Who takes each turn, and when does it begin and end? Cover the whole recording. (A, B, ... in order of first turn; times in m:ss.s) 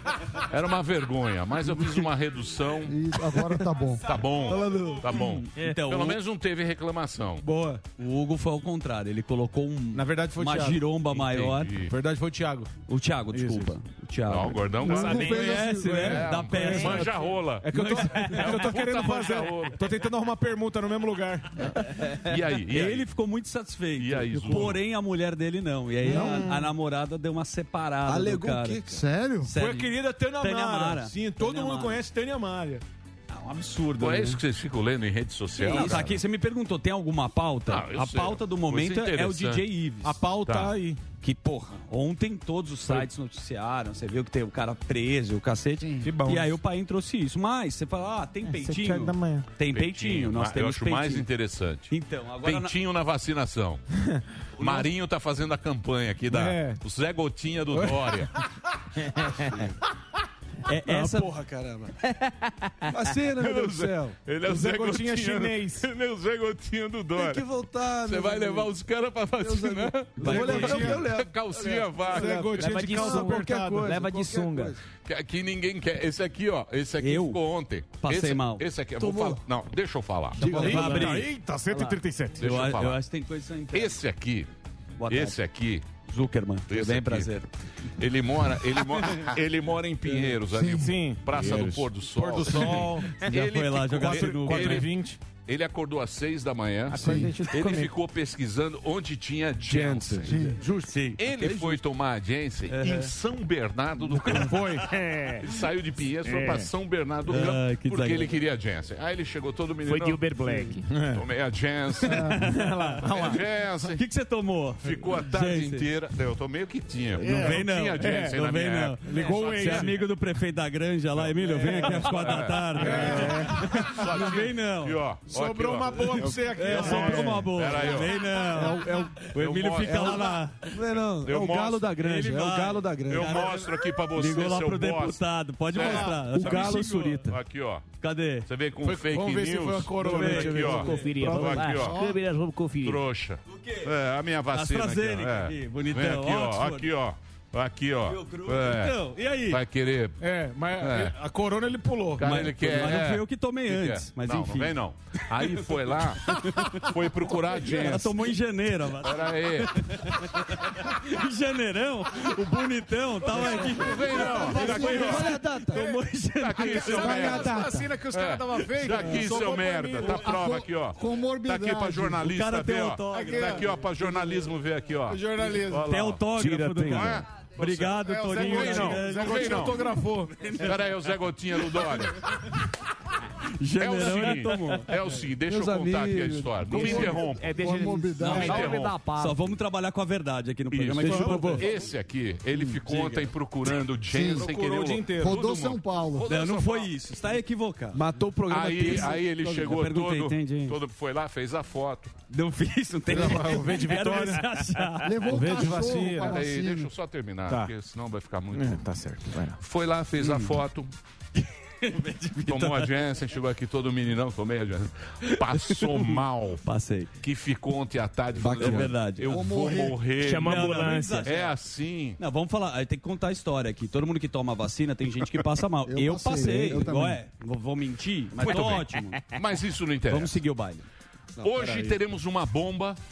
0:00.5-0:03.1 A
0:02.9-0:04.0 B
0:04.0-0:07.4 A
0:04.5-0:05.0 C
0:05.1-0:06.2 D
0:07.4-0:07.8 C
0:08.0-0:11.7 D
0:09.9-0:10.8 C
0:11.1-0:11.9 A
0:11.8-0:12.7 C
0:12.9-0:17.2 D
0:13.3-0:13.7 C
0:14.3-0:19.8 A
0:14.8-0:21.7 C
0:15.2-0:16.0 B
0:17.7-0:18.7 D
0:21.9-0:28.8 D
0:22.1-0:23.1 A
0:24.0-0:24.8 A
0:26.0-0:26.6 C
0:26.1-0:26.4 B
0:28.0-0:29.0 E
0:28.9-0:29.5 B
0:29.4-0:32.0 D
0:29.5-0:32.8 C
0:33.3-0:34.4 D
0:34.0-0:36.2 A
0:35.6-0:40.2 D
0:37.7-0:39.6 A
0:40.0-0:41.0 C
0:40.4-0:40.7 A
0:41.2-0:51.3 D
0:45.8-0:46.1 B
0:46.0-0:46.6 C
0:48.5-0:49.5 C
0:49.7-0:53.8 A
0:51.9-0:52.8 D
0:54.6-0:58.3 A
0:54.6-0:54.8 D
0:56.3-0:56.8 C
0:57.7-0:58.1 C
1:00.6-1:01.3 D
1:00.9-1:01.9 E
1:02.9-1:04.2 E
1:03.4-1:07.5 A
1:04.4-1:05.9 C
1:07.2-1:08.7 E
1:08.0-1:12.6 A
1:09.4-1:14.8 E
1:10.2-1:11.1 C
1:10.2-1:11.0 D
1:12.1-1:13.9 C
1:12.6-1:14.7 F
1:15.0-1:21.0 A
1:17.0-1:17.4 D
1:18.0-1:19.0 D
1:19.0-1:19.4 E
1:20.4-1:21.3 D
1:20.4-1:22.5 C
1:20.4-1:22.0 F
1:22.4-1:24.0 D
1:22.4-1:23.0 A
1:23.7-1:24.5 A
1:25.0-1:25.4 D
1:25.1-1:25.8 A
1:26.1-1:27.5 D
1:26.7-1:27.3 A
1:28.0-1:40.4 A
1:30.5-1:30.9 B
1:30.6-1:33.2 C
1:32.4-1:34.9 D
1:34.0-1:35.2 C
1:36.9-1:37.9 C
1:37.0-1:37.3 B
1:39.7-1:40.9 C
1:40.2-1:40.6 B
1:40.9-1:41.8 D
1:41.2-1:44.8 A
1:42.7-1:43.1 D
1:44.1-1:44.9 C
1:45.0-1:45.4 F
1:45.4-1:50.3 A
1:46.3-1:46.6 F
1:47.3-1:48.3 D
1:49.9-1:50.8 F
1:50.9-1:51.2 C
1:51.1-1:52.4 A
1:52.0-1:53.3 D
1:52.9-1:53.4 F
1:53.0-1:54.0 A
1:53.9-1:55.9 D
1:54.8-2:00.0 A
1:57.2-2:05.0 D
1:59.0-2:00.0 C
2:01.1-2:08.6 A
2:02.8-2:04.2 C
2:05.3-2:07.6 C
2:06.4-2:06.8 E
2:06.5-2:10.7 D
2:08.5-2:09.2 C
2:08.6-2:09.0 E
2:09.2-2:10.4 A
2:09.9-2:13.7 E
2:11.2-2:12.0 A
2:12.0-2:17.3 D
2:13.1-2:15.2 A
2:15.7-2:17.8 A
2:15.8-2:17.3 C
2:18.0-2:18.5 D
2:18.4-2:22.0 A
2:18.8-2:21.7 C
2:20.0-2:21.3 E
2:20.0-2:21.2 D
2:20.9-2:23.0 F
2:21.7-2:22.2 B
2:22.8-2:30.2 A
2:23.5-2:23.9 D
2:24.5-2:26.9 D
2:28.0-2:29.6 D
2:30.2-2:32.4 C
2:30.8-2:31.1 A
2:32.2-2:38.2 A
2:32.2-2:34.7 D
2:35.5-2:36.9 D
2:37.5-2:47.7 D
2:39.0-2:39.7 A
2:43.3-2:45.4 A
2:44.2-2:45.9 B
2:44.3-2:44.9 C
2:46.4-2:57.2 A
2:46.6-2:50.4 C
2:47.0-2:47.8 B
2:49.0-2:49.3 D
2:50.3-2:52.3 B
2:52.2-2:53.7 D
2:53.1-2:54.4 C
2:55.1-3:00.6 C
2:55.8-3:00.8 D
2:58.3-2:59.8 A
3:00.6-3:02.2 A
3:03.6-3:04.9 D
3:03.8-3:07.7 A
3:05.6-3:06.0 E
3:06.7-3:08.7 B
3:06.8-3:09.5 F
3:08.2-3:11.7 D
3:08.2-3:09.0 A
3:10.7-3:16.9 A
3:11.0-3:11.7 C
3:12.5-3:13.3 D
3:14.1-3:14.5 B
3:14.3-3:15.4 C
3:15.2-3:16.3 B
3:16.3-3:18.0 D
3:18.0-3:18.2 C
3:18.3-3:19.2 E
3:18.5-3:22.1 A
3:18.8-3:20.8 D
3:22.3-3:25.9 D
3:23.1-3:24.5 C
3:25.0-3:26.9 B
3:25.2-3:26.4 C
3:25.7-3:28.8 A
3:27.5-3:27.7 C
3:28.5-3:29.6 C
3:29.6-3:30.9 A
3:30.2-3:30.6 D
3:31.4-3:32.9 D
3:32.4-3:36.6 A
3:35.5-3:37.1 D
3:37.2-3:42.2 A
3:38.4-3:39.3 D
3:38.4-3:38.9 E
3:39.2-3:40.0 B
3:40.2-3:41.3 F
3:40.3-3:41.6 D
3:42.2-3:49.2 D
3:45.9-3:47.2 B
3:46.3-3:47.0 C
3:48.4-3:50.4 A
3:50.1-3:50.8 D
3:51.4-3:51.9 E
3:51.4-3:53.0 A